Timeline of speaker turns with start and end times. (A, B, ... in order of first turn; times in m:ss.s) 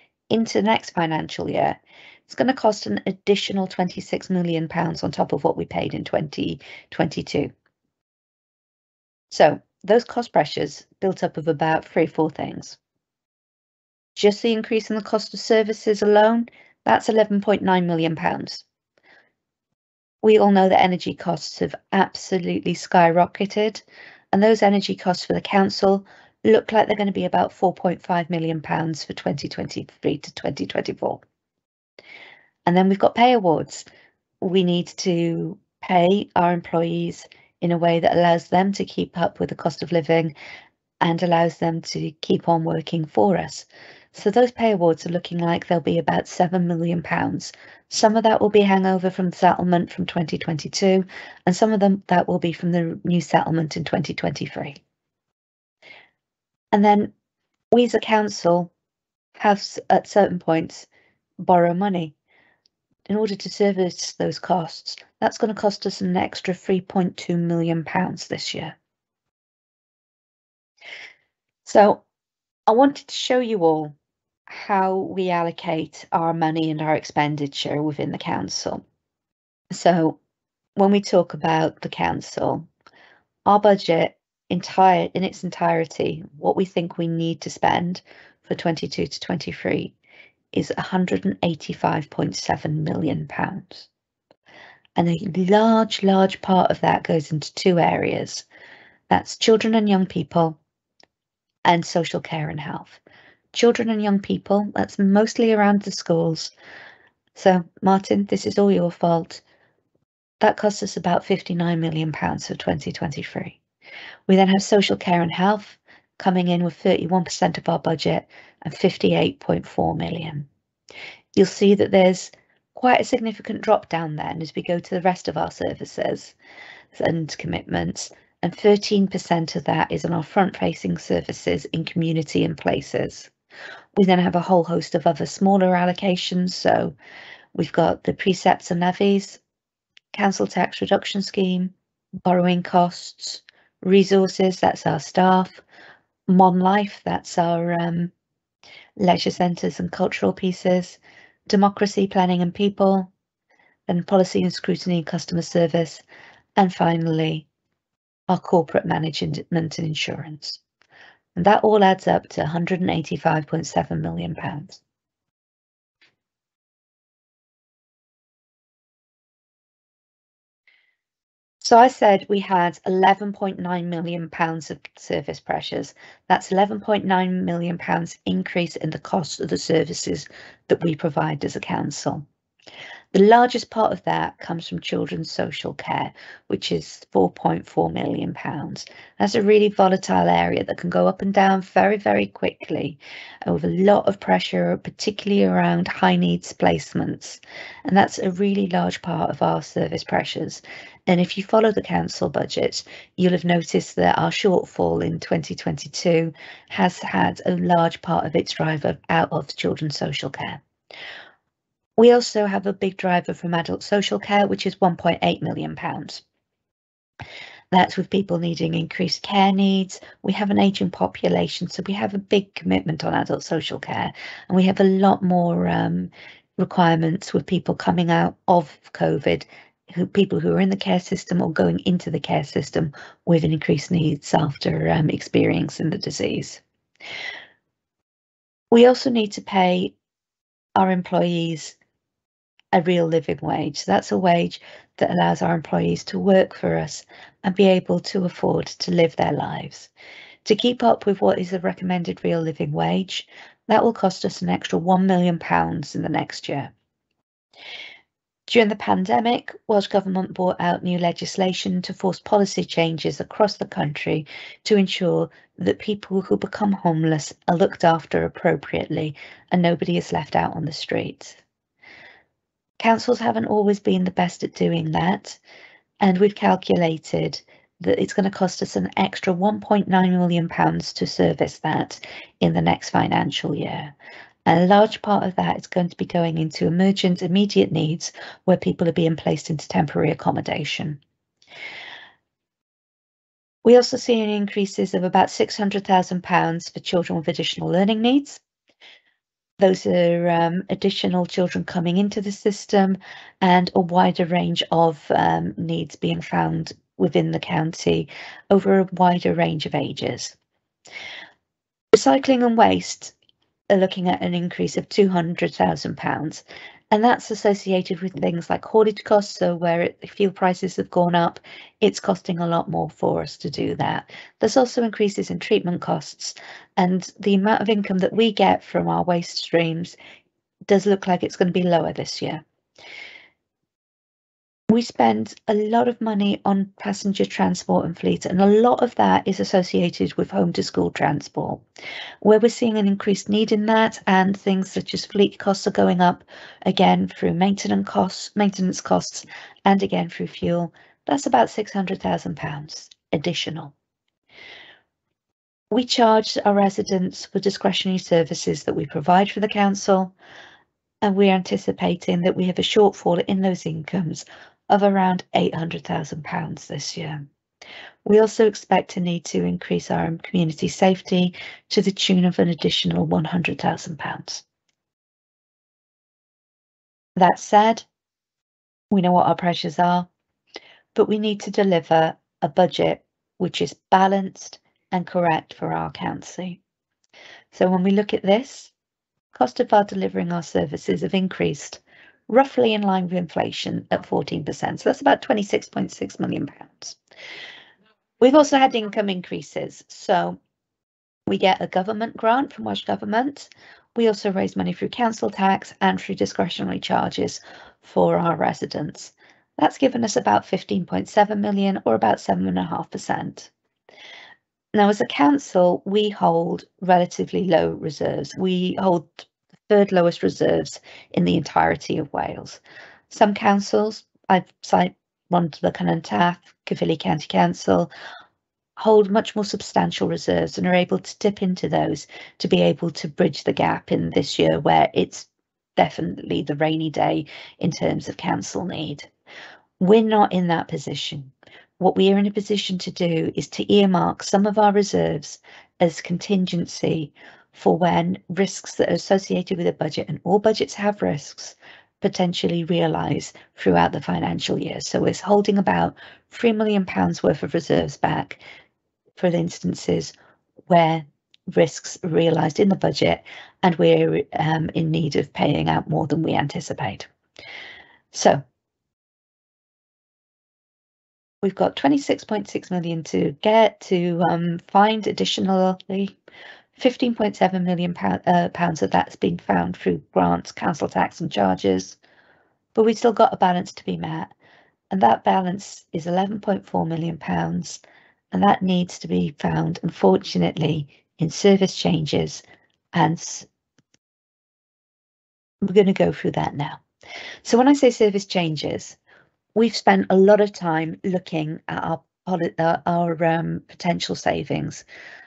0:00.3-0:07.5 A
0:09.3-0:12.8 A
0:14.2-0:18.6 A
0:20.2-0:31.2 A
0:32.7-0:33.9 A
0:34.4-0:40.3 A
0:41.0-0:54.8 A
0:56.7-0:57.1 A
0:57.7-0:58.7 A
0:59.4-1:00.9 A
1:01.4-1:02.1 A
1:03.1-1:08.8 A
1:11.6-1:12.0 A
1:12.7-1:13.9 A
1:14.5-1:18.8 A
1:19.7-1:20.2 A
1:20.8-1:22.7 A
1:23.4-1:29.9 A
1:30.5-1:33.9 A
1:35.0-1:38.4 A
1:39.1-1:40.6 A
1:41.6-1:43.0 A
1:43.5-1:46.5 A
1:47.4-1:49.4 A
1:50.4-1:53.6 A
1:54.3-2:00.5 A
2:01.4-2:06.4 A
2:06.9-2:13.3 A
2:14.0-2:16.9 A
2:17.6-2:19.4 A
2:20.1-2:21.7 A
2:22.2-2:25.6 A
2:26.3-2:28.1 A
2:29.0-2:33.1 A
2:33.9-2:36.0 A
2:36.6-2:37.4 A
2:38.3-2:40.6 A
2:41.4-2:44.8 A
2:51.6-3:02.2 A
3:03.1-3:30.6 A
3:32.0-3:36.2 A
3:37.7-3:56.6 A
3:58.7-3:59.9 A
4:00.8-4:01.8 A
4:02.7-4:09.9 A
4:10.4-4:16.7 A
4:18.5-4:31.4 A
4:32.8-4:35.4 A
4:36.0-4:43.9 A
4:44.5-4:51.0 A
4:53.6-4:58.4 A
4:59.6-5:10.4 A
5:11.9-5:13.1 A
5:13.7-5:30.0 A
5:30.7-5:32.4 A
5:34.7-5:41.6 A
5:42.2-5:53.7 A
5:55.7-6:00.1 A
6:01.0-6:07.2 A
6:08.0-6:14.4 A
6:17.2-6:17.8 A
6:18.9-6:20.1 A
6:21.0-6:26.6 A
6:27.5-6:28.7 A
6:29.4-6:37.0 A
6:38.2-6:40.4 A
6:41.3-6:53.5 A
6:54.7-7:07.9 A
7:08.8-7:19.1 A
7:19.8-7:38.4 A
7:39.2-7:40.1 A
7:40.7-7:47.1 A
7:48.1-7:48.4 A
7:51.4-7:56.2 A
7:56.8-8:02.0 A
8:02.8-8:04.3 A
8:04.9-8:07.8 A
8:08.3-8:12.4 A
8:13.0-8:13.5 A
8:15.6-8:16.8 A
8:17.4-8:19.0 A
8:19.5-8:24.8 A